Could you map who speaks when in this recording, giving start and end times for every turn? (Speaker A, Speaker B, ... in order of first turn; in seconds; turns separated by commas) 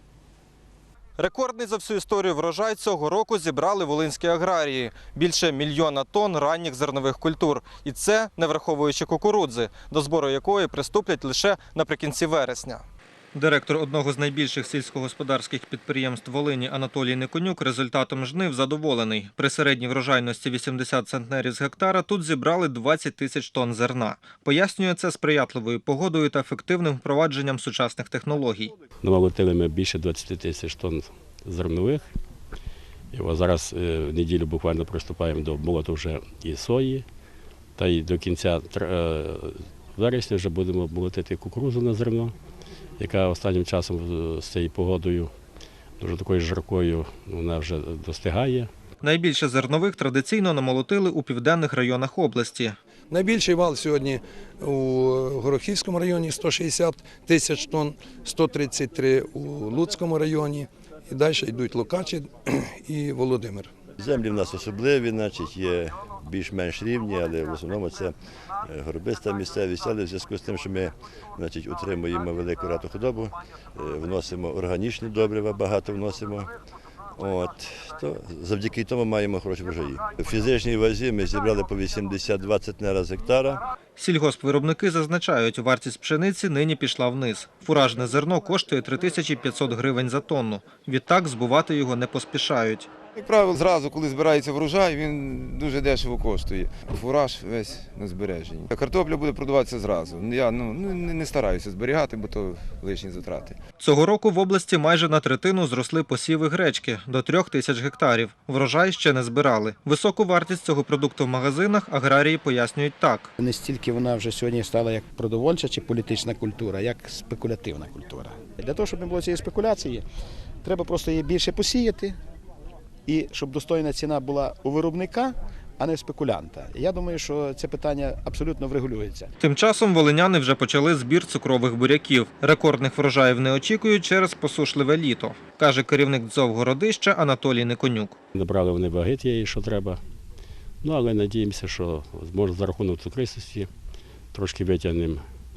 Speaker A: 1.2-12.8, Speaker A: 13.3-28.7, Speaker B: 29.0-32.0, Speaker B: 33.1-37.0, Speaker B: 37.8-42.3, Speaker B: 43.0-45.3, Speaker B: 46.0-48.7, Speaker A: 49.0-52.8, Speaker C: 53.1-63.7, Speaker D: 64.0-68.1, Speaker D: 68.7-76.5, Speaker D: 77.2-83.6, Speaker A: 84.0-92.9, Speaker E: 93.2-103.6, Speaker A: 103.8-113.3, Speaker F: 113.4-120.0, Speaker F: 120.6-122.2, Speaker F: 123.1-129.3, Speaker A: 129.4-138.1, Speaker B: 138.3-140.0, Speaker B: 140.8-143.7, Speaker B: 144.3-145.2